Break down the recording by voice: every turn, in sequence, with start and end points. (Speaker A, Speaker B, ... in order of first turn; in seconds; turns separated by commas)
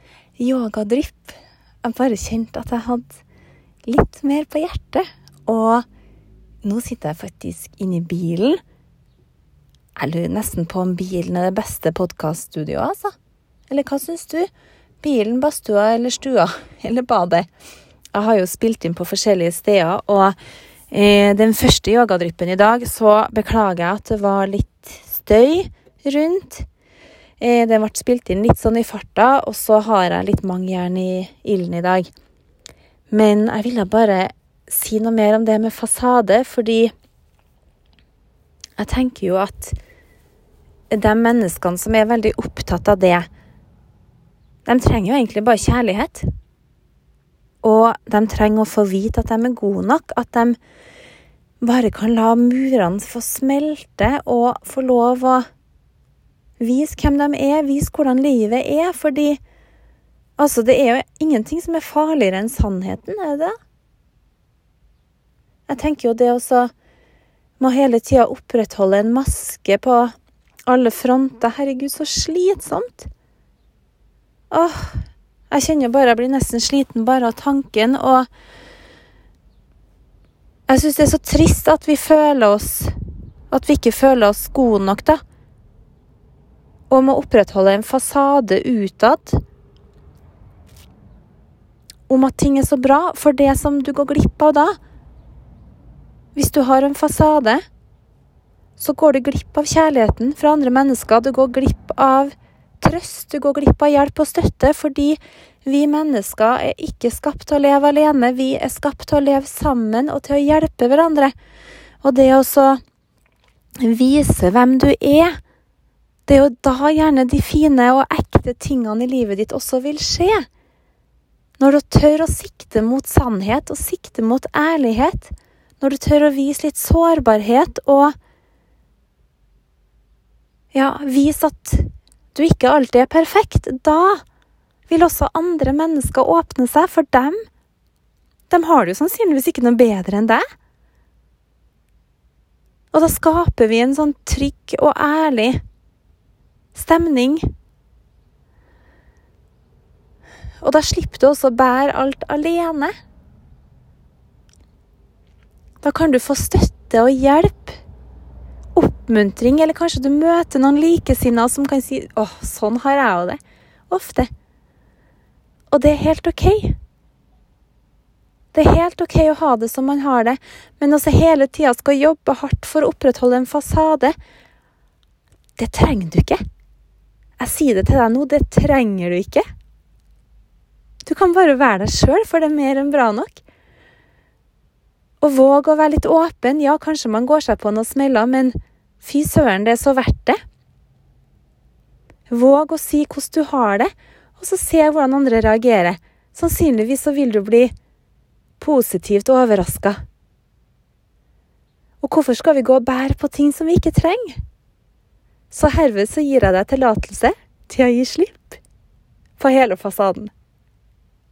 Speaker A: 0.4-3.2, Speaker A: 3.8-5.8, Speaker A: 6.6-8.6, Speaker A: 9.9-13.1, Speaker A: 13.7-14.5, Speaker A: 15.0-17.5, Speaker A: 18.1-20.4, Speaker A: 20.9-26.7, Speaker A: 27.4-32.1, Speaker A: 33.1-36.9, Speaker A: 38.8-39.8, Speaker A: 40.9-43.3, Speaker A: 44.6-46.3, Speaker A: 47.6-50.6, Speaker A: 51.6-55.5, Speaker A: 56.6-59.4, Speaker A: 60.4-63.5, Speaker A: 65.7-66.7, Speaker A: 67.6-70.1, Speaker A: 70.7-73.1, Speaker A: 74.5-78.3, Speaker A: 80.7-82.9, Speaker A: 83.5-85.2, Speaker A: 86.9-89.4, Speaker A: 92.1-94.7, Speaker A: 96.3-97.6, Speaker A: 98.8-111.3, Speaker A: 112.0-112.8, Speaker A: 113.8-115.4, Speaker A: 116.3-120.5, Speaker A: 121.6-128.1, Speaker A: 130.7-134.2, Speaker A: 134.9-137.3, Speaker A: 138.5-140.4, Speaker A: 142.9-145.6, Speaker A: 146.7-147.4, Speaker A: 150.6-152.9, Speaker A: 155.8-157.8, Speaker A: 158.7-163.4, Speaker A: 163.9-164.3, Speaker A: 165.7-166.8, Speaker A: 168.5-174.2, Speaker A: 175.6-176.4, Speaker A: 177.4-179.4, Speaker A: 181.0-183.4, Speaker A: 185.2-190.4, Speaker A: 192.3-197.7, Speaker A: 198.6-200.0, Speaker A: 202.0-204.4, Speaker A: 205.5-208.6, Speaker A: 209.4-210.3